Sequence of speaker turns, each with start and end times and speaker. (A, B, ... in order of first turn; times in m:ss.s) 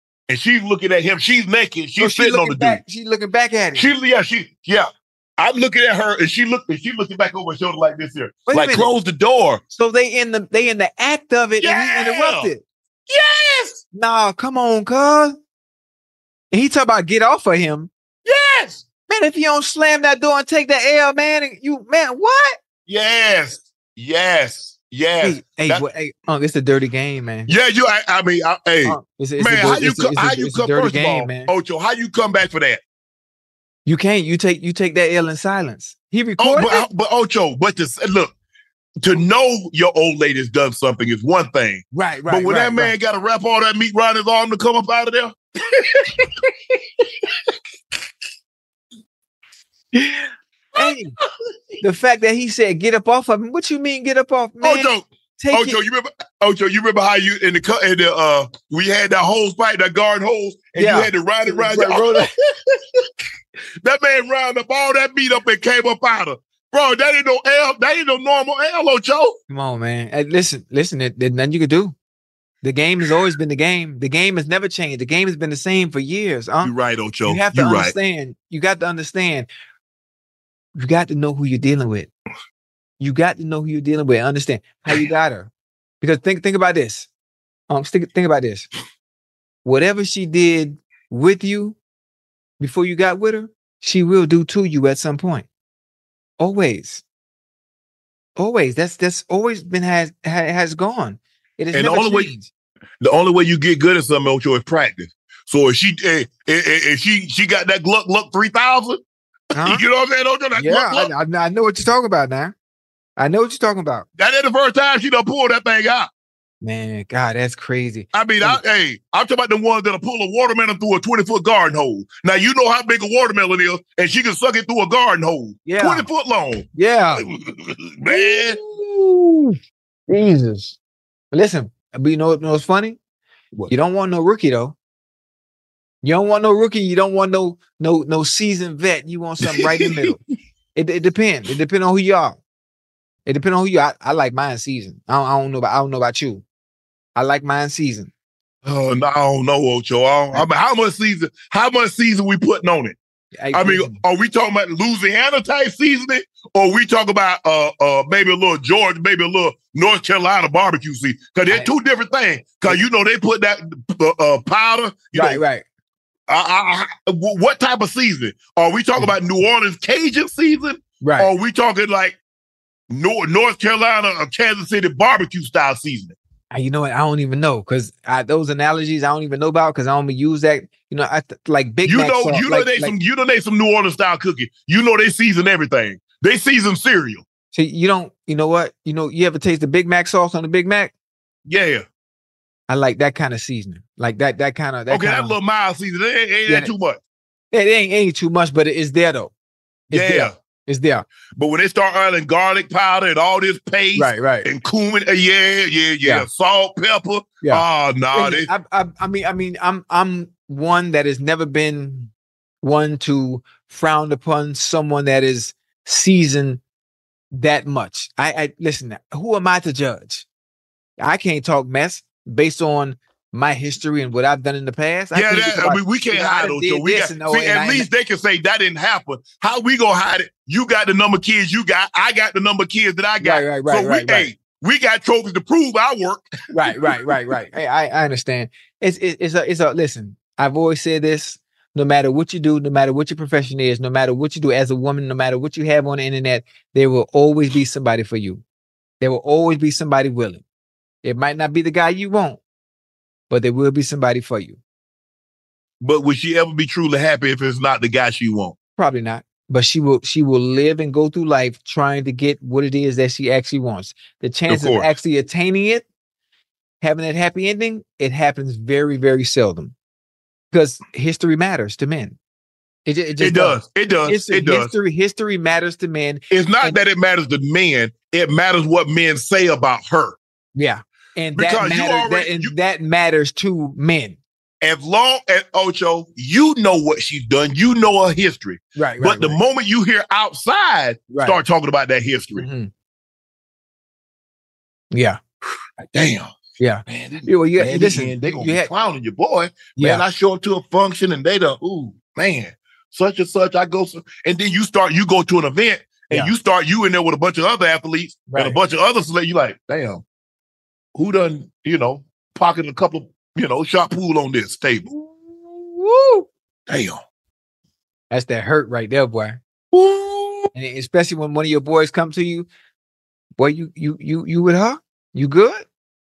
0:00.3-0:02.8 A
0:02.0-0:03.9 B
0:03.8-0:09.6 A
0:08.5-0:08.9 B
0:09.7-0:12.6 B
0:11.6-0:12.5 A
0:13.1-0:13.8 A
0:13.9-0:15.4 B
0:16.5-0:17.9 B
0:18.2-0:18.8 A
0:19.1-0:22.6 B
0:22.9-0:25.8 A
0:25.2-0:27.5 B
0:27.5-0:32.8 A
0:28.8-0:31.5 B
0:33.9-0:36.8 B
0:36.4-0:38.3 A
0:39.0-0:46.2 A
0:41.9-0:42.9 B
0:49.9-0:51.2 B
0:51.8-0:55.8 B
0:54.6-1:03.1 A
1:00.8-1:02.3 B
1:03.8-1:09.4 A
1:09.5-1:12.0 B
1:12.6-1:16.7 B
1:16.6-1:18.0 A
1:17.2-1:19.5 B
1:20.8-1:22.1 B
1:23.0-1:27.1 B
1:27.7-1:28.7 B
1:29.6-1:31.8 B
1:32.6-1:35.5 B
1:36.4-1:37.0 B
1:38.4-1:42.5 B
1:41.7-1:42.3 A
1:43.0-1:49.0 A
1:49.6-1:49.8 B
1:49.6-1:51.1 A
1:50.6-1:52.6 B
1:53.2-1:54.1 B
1:54.2-1:56.1 A
1:56.6-1:58.6 B
1:58.1-2:06.7 A
2:05.7-2:06.1 B
2:06.8-2:07.2 B
2:07.2-2:08.6 A
2:08.1-2:10.8 B
2:11.3-2:13.0 B
2:13.7-2:14.8 B
2:16.0-2:20.2 B
2:19.4-2:20.2 A
2:20.8-2:22.4 B
2:23.3-2:26.4 B
2:27.2-2:28.1 B
2:28.6-2:33.0 A
2:33.4-2:34.0 B
2:33.5-2:45.4 A
2:45.1-2:45.6 B
2:46.3-2:52.2 A
2:51.0-2:51.3 B
2:52.9-2:56.2 A
2:56.5-3:03.0 B
3:01.9-3:07.2 A
3:07.5-3:10.9 B
3:11.5-3:11.8 A
3:12.7-3:15.4 B
3:14.9-3:17.0 A
3:16.5-3:16.7 B
3:17.5-3:19.3 B
3:19.9-3:21.0 B
3:19.9-3:20.3 A
3:21.4-3:28.5 A
3:24.0-3:24.5 B
3:26.0-3:26.3 B
3:27.4-3:32.1 B
3:32.6-3:36.6 B
3:37.3-3:40.3 B
3:41.0-3:47.9 B
3:45.1-3:57.1 A
3:53.2-3:54.3 B
3:56.5-4:08.4 B
4:09.0-4:10.4 B
4:11.0-4:12.4 B
4:13.3-4:14.6 B
4:15.8-4:18.6 A
4:18.8-4:25.8 B
4:24.5-4:24.9 A
4:26.8-4:29.7 B
4:30.5-4:32.2 B
4:32.9-4:36.8 B
4:33.2-4:34.7 A
4:36.3-4:40.2 A
4:40.6-4:44.2 B
4:41.4-4:42.5 A
4:44.6-4:52.5 A
4:48.8-4:49.4 B
4:51.1-4:51.4 B
4:52.4-4:52.7 B
4:54.9-4:55.2 B
4:55.8-4:56.4 A
4:56.6-4:58.7 B
4:56.9-5:10.0 A
4:59.8-5:00.0 B
5:08.3-5:08.6 B
5:11.0-5:14.9 A
5:14.9-5:16.3 B
5:16.7-5:17.0 A
5:18.1-5:19.4 B
5:19.7-5:20.5 A
5:20.5-5:22.5 B
5:23.4-5:25.7 B